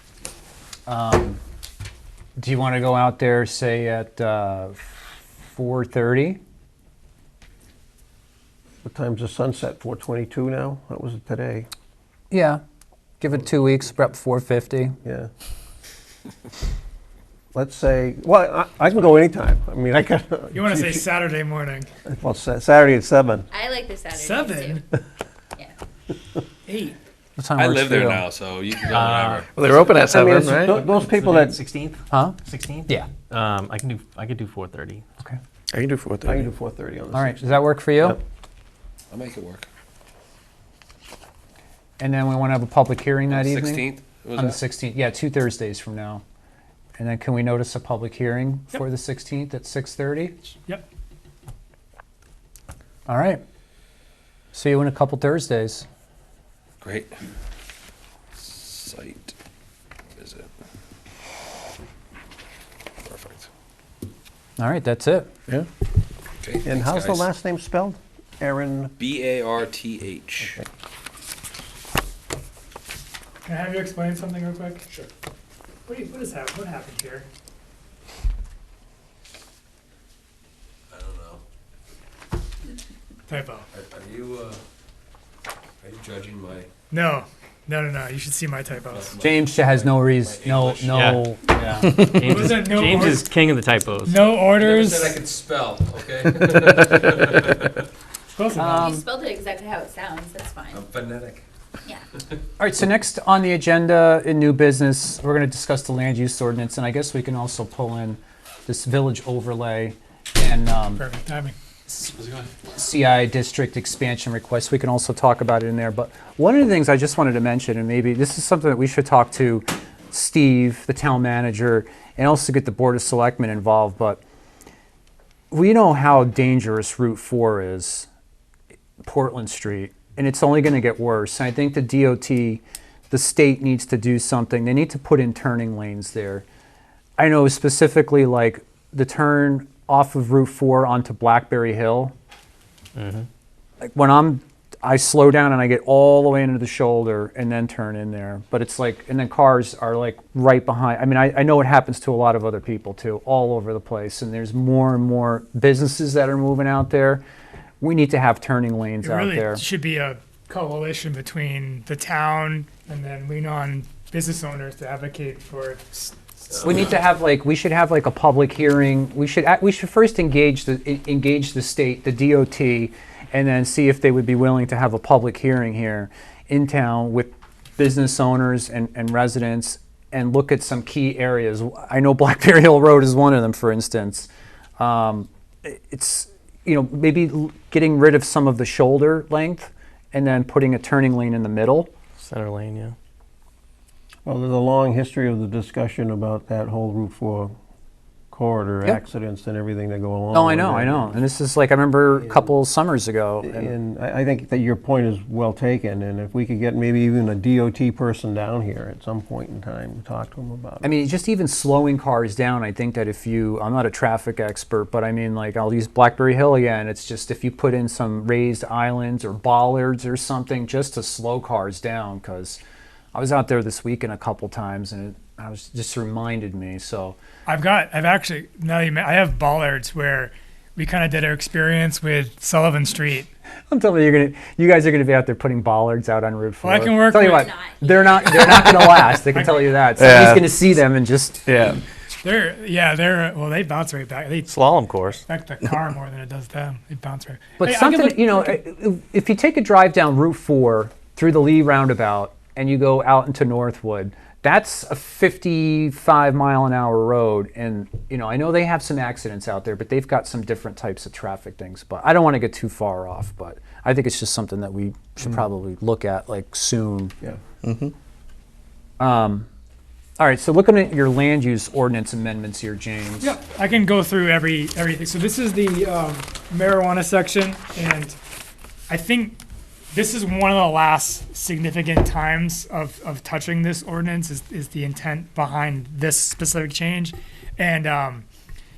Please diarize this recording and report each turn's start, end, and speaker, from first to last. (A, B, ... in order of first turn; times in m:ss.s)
0:00.9-0:01.4 A
0:02.4-0:06.4 A
0:08.8-0:11.7 B
0:12.3-0:12.6 A
0:13.2-0:15.0 A
0:15.0-0:15.3 B
0:17.5-0:21.0 B
0:20.5-0:21.9 C
0:22.0-0:23.5 B
0:23.5-0:24.8 D
0:24.1-0:24.8 C
0:26.7-0:27.0 C
0:27.4-0:28.3 A
0:27.6-0:29.5 E
0:28.8-0:29.4 A
0:29.5-0:30.8 F
0:30.1-0:30.4 A
0:30.5-0:31.6 B
0:30.8-0:35.0 G
0:32.1-0:33.1 A
0:35.7-0:36.4 F
0:36.2-0:38.1 B
0:37.1-0:38.2 A
0:39.1-0:39.7 E
0:42.0-0:46.2 A
0:43.3-0:44.6 E
0:47.0-0:50.4 A
0:53.1-0:53.4 A
0:54.5-0:55.8 A
0:56.8-0:57.1 E
0:58.4-0:59.3 E
1:00.2-1:00.5 E
1:03.0-1:03.5 E
1:04.6-1:05.3 A
1:06.4-1:07.2 E
1:06.6-1:08.9 B
1:09.0-1:10.6 E
1:13.4-1:14.8 C
1:15.9-1:17.2 C
1:20.9-1:21.4 E
1:23.3-1:23.7 C
1:23.7-1:24.6 E
1:25.8-1:26.7 E
1:26.9-1:29.1 C
1:28.9-1:31.0 E
1:29.2-1:32.1 A
1:30.9-1:31.2 G
1:31.8-1:34.2 G
1:32.2-1:33.3 C
1:34.0-1:35.2 C
1:34.4-1:37.8 E
1:38.4-1:38.9 C
1:38.6-1:39.0 A
1:38.6-1:40.8 D
1:40.7-1:41.4 E
1:42.6-1:51.0 A
1:51.0-1:51.5 C
1:52.1-1:52.5 E
1:52.7-2:04.2 A
2:05.5-2:08.1 A
2:09.0-2:16.4 A
2:17.2-2:22.1 A
2:23.0-2:23.2 G
2:23.8-2:37.2 A
2:37.8-2:39.6 A
2:39.0-2:46.1 C
2:46.5-3:11.9 A
3:12.2-3:12.9 G
3:14.2-3:17.5 B
3:18.3-3:21.2 B
3:20.3-3:23.7 A
3:23.4-3:30.9 B
3:30.8-3:42.6 A
3:43.1-3:47.2 A
3:47.4-3:53.3 C
3:53.7-4:01.5 A
3:56.6-3:57.5 C
3:57.3-3:58.7 D
3:59.3-3:59.9 C
4:00.0-4:00.5 G
4:01.5-4:01.8 G
4:02.2-4:08.6 C
4:04.5-4:05.2 G
4:07.6-4:27.1 A
4:27.6-4:27.9 F
4:29.0-4:29.5 A
4:30.2-4:33.3 A
4:33.2-4:38.2 C
4:38.9-4:39.4 C
4:39.9-4:48.2 C